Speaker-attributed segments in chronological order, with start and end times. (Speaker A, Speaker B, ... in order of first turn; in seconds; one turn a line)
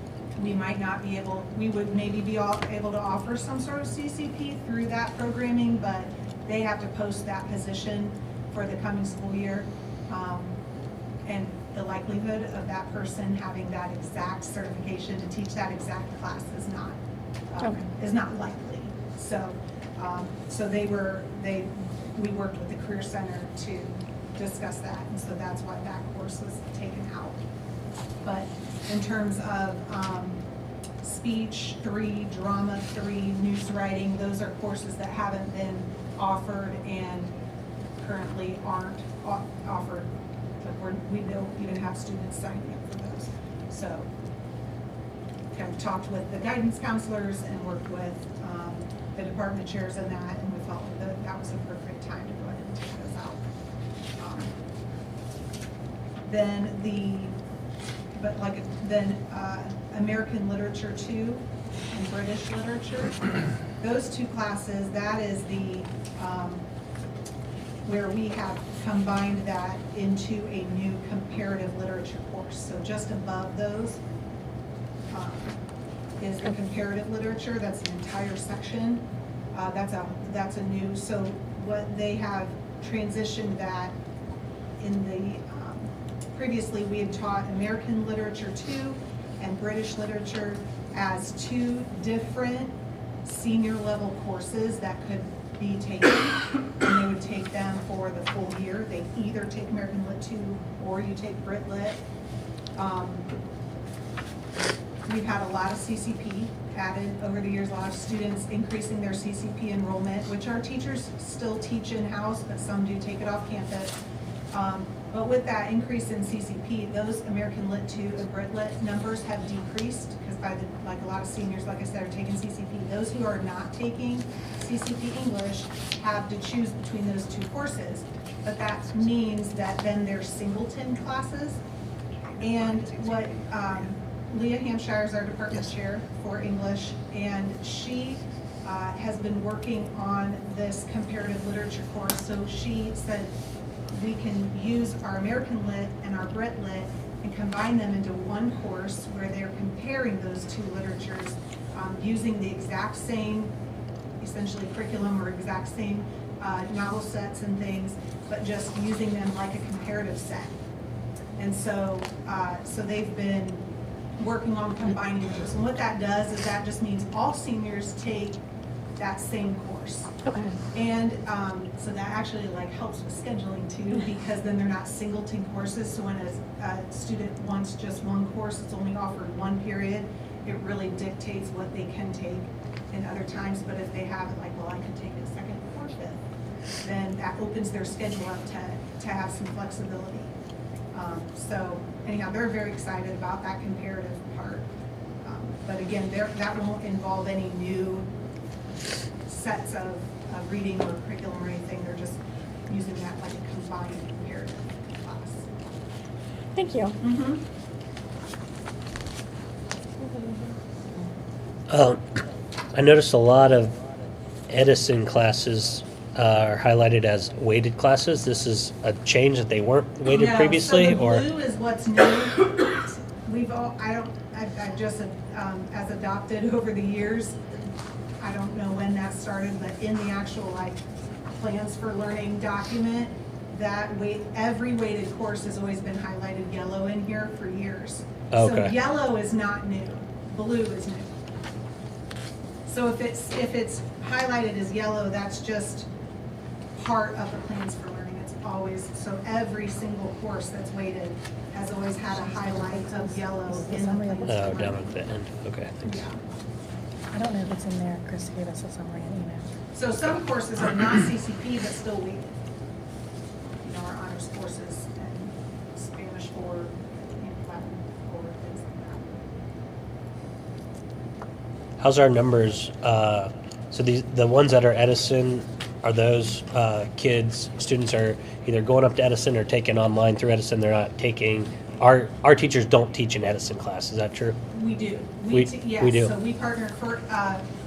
Speaker A: 0.4-10.6
Speaker A: 11.2-17.0
Speaker A: 17.5-27.4
Speaker A: 28.2-30.4
Speaker A: 31.0-37.3
Speaker A: 38.0-40.1
Speaker A: 40.6-44.1
Speaker A: 45.5-53.4
Speaker A: 54.2-54.5
Speaker A: 56.2-57.3
Speaker A: 58.1-66.7
Speaker A: 67.8-74.0
Speaker A: 75.1-75.6
Speaker A: 76.2-84.0
Speaker A: 84.8-102.0
Speaker A: 102.8-103.3
Speaker A: 105.0-114.0
Speaker A: 114.5-131.6
Speaker A: 132.4-143.3
Speaker A: 143.9-153.5
Speaker A: 154.2-160.5
Speaker A: 161.4-163.7
Speaker A: 164.2-168.4
Speaker A: 169.0-170.1
Speaker B: 170.2-170.6
Speaker A: 170.7-186.2
Speaker A: 186.8-190.3
Speaker A: 190.9-194.7
Speaker A: 195.2-198.1
Speaker A: 199.2-205.5
Speaker B: 206.5-207.0
Speaker A: 207.0-207.4
Speaker B: 210.0-210.5
Speaker C: 211.7-212.0
Speaker C: 212.7-213.7
Speaker C: 214.5-221.2
Speaker A: 220.1-227.4
Speaker A: 228.2-241.1
Speaker C: 238.3-238.7
Speaker A: 242.7-245.9
Speaker A: 246.7-254.9
Speaker B: 252.2-254.7
Speaker C: 254.2-256.0
Speaker A: 255.8-256.2
Speaker B: 257.1-259.5
Speaker A: 259.7-262.4
Speaker A: 263.6-269.2
Speaker C: 271.8-284.4
Speaker A: 284.5-287.4
Speaker C: 285.3-286.1